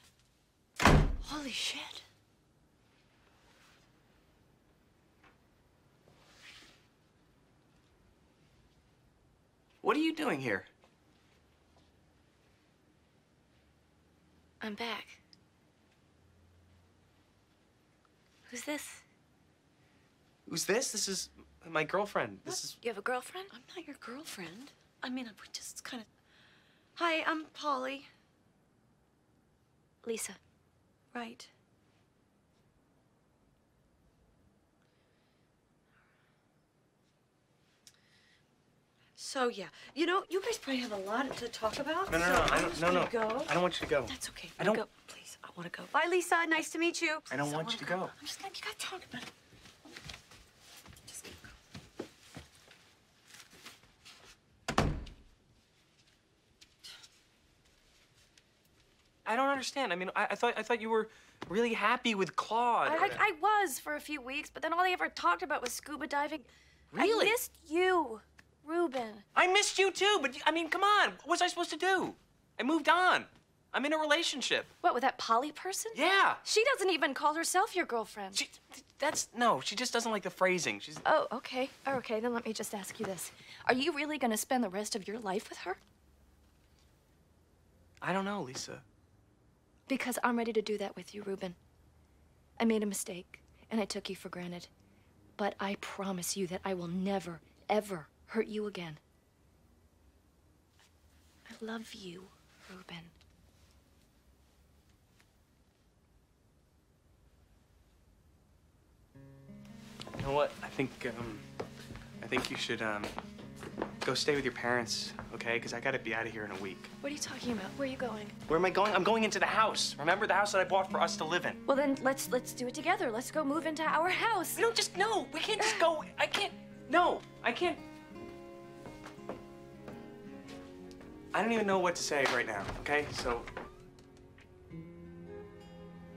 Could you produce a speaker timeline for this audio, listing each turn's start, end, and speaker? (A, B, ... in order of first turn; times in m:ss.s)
0:01.2-0:02.0 A
0:09.8-0:10.7 B
0:14.6-0:15.2 A
0:18.5-0:19.0 A
0:20.5-0:22.8 B
0:22.8-0:23.5 A
0:23.6-0:26.0 C
0:27.0-0:28.1 C
0:30.0-0:30.4 A
0:31.1-0:31.5 C
0:39.2-0:43.5 C
0:42.1-0:44.8 B
0:44.1-0:49.3 C
0:47.3-0:48.1 B
0:59.2-1:03.2 B
1:02.8-1:09.2 A
1:06.9-1:07.3 B
1:09.3-1:14.7 B
1:14.8-1:18.4 A
1:15.9-1:16.4 B
1:18.3-1:21.0 B
1:21.0-1:25.8 A
1:28.0-1:28.8 B
1:29.9-1:31.6 A
1:32.6-1:34.7 A
1:35.4-1:39.0 A
1:41.5-1:43.1 A
1:50.2-1:51.4 B
1:52.2-1:53.1 B
1:54.0-1:56.9 B
1:57.0-1:58.4 A
1:58.5-2:01.6 B
2:01.6-2:04.6 A
2:04.6-2:07.8 B
2:05.6-2:05.9 A
2:11.3-2:13.5 B